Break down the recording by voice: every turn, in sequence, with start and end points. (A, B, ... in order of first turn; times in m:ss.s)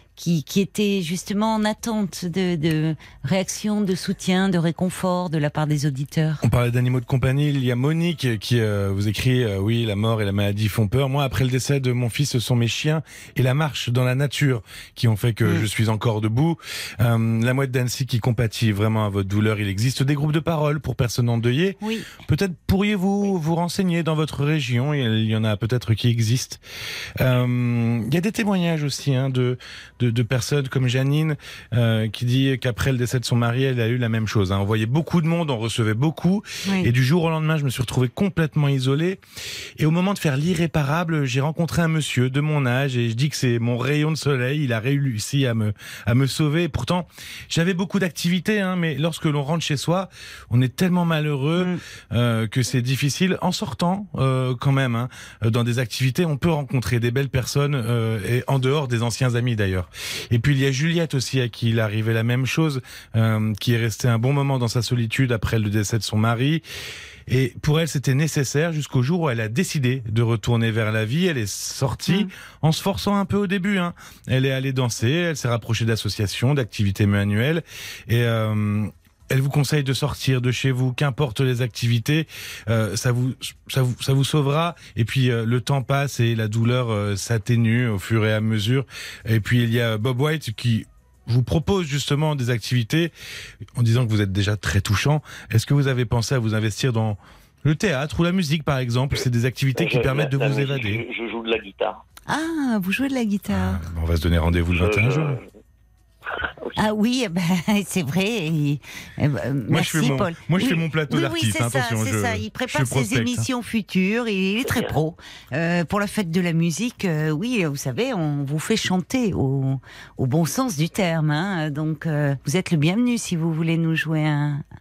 0:00.2-0:06.4 A
0:06.4-0:26.6 B
0:21.8-0:22.1 A
0:27.2-0:39.2 B
0:39.8-1:06.6 B
1:07.3-1:33.1 B
1:33.8-1:41.0 B
1:39.7-1:42.0 C
1:42.3-1:43.8 A
1:43.5-1:45.4 B
1:44.7-1:45.4 C
1:46.3-1:46.8 C
1:46.8-2:04.6 A
1:49.7-1:53.4 B
1:54.6-1:55.0 C